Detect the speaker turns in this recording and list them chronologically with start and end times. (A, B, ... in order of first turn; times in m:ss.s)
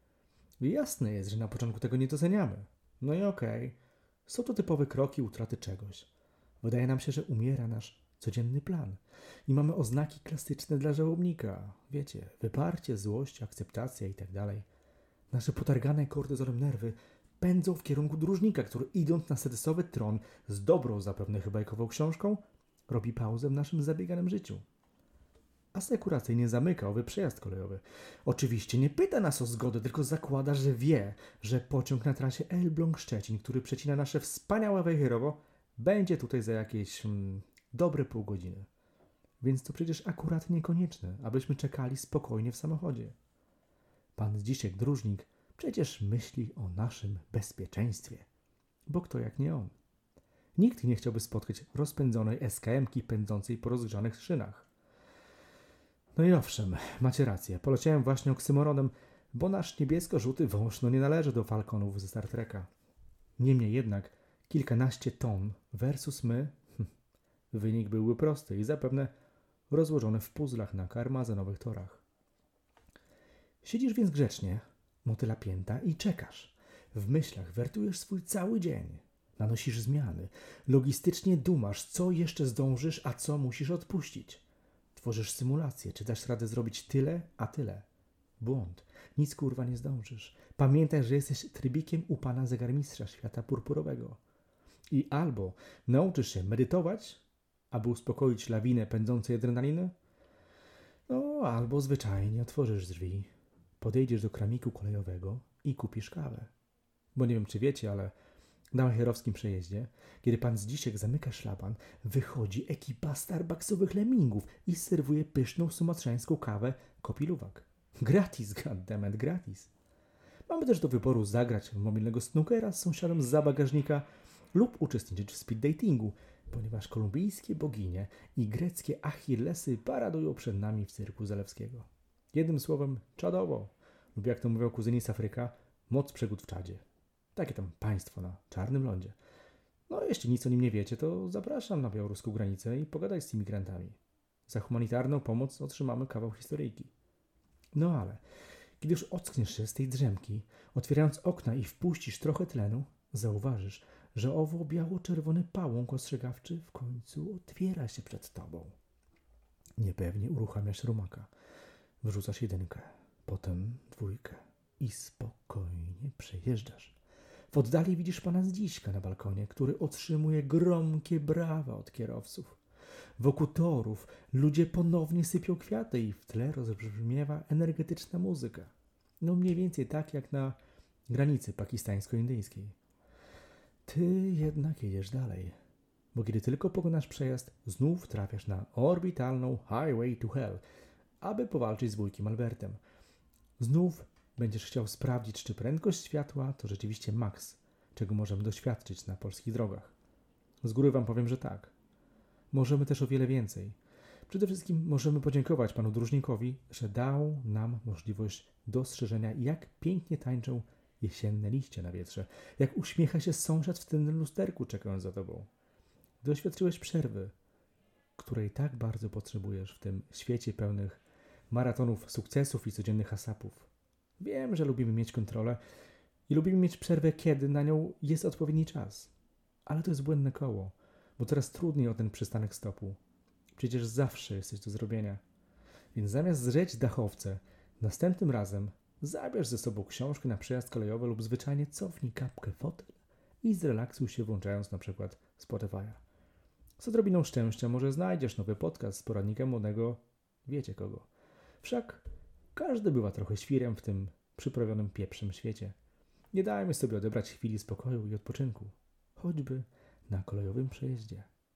0:00.6-0:06.1 A
0:06.6-0:14.7 A
0:15.3-0:24.6 A
0:25.7-0:38.7 A
0:39.4-0:43.2 A
0:44.2-0:48.3 A
0:48.9-0:49.7 A
0:50.6-0:54.7 A
0:56.2-1:02.7 A
1:03.4-1:06.9 A
1:07.5-1:09.1 A
1:09.7-1:12.0 A
1:13.6-1:24.4 A
1:24.9-1:27.8 A
1:28.4-1:34.2 A
1:34.9-1:39.9 A
1:41.1-1:46.5 A
1:47.1-1:48.1 A
1:48.7-1:59.7 A
2:00.5-2:16.8 A
2:17.3-2:19.2 A
2:19.9-2:26.9 A
2:27.7-2:28.2 A
2:28.8-2:38.8 A
2:39.8-2:41.3 A
2:42.0-2:47.0 A
2:47.5-2:52.6 A
2:53.2-3:00.6 A
3:01.1-3:02.8 A
3:03.8-3:05.6 A
3:06.1-3:10.6 A
3:11.2-3:12.8 A
3:13.6-3:19.9 A
3:20.6-3:21.7 A
3:22.5-3:23.8 A
3:24.3-3:35.5 A
3:36.2-3:37.3 A
3:38.2-3:45.6 A
3:46.3-3:49.1 A
3:49.6-3:53.0 A
3:53.6-3:55.2 A
3:55.9-4:06.0 A
4:06.8-4:11.1 A
4:11.6-4:15.8 A
4:16.3-4:21.3 A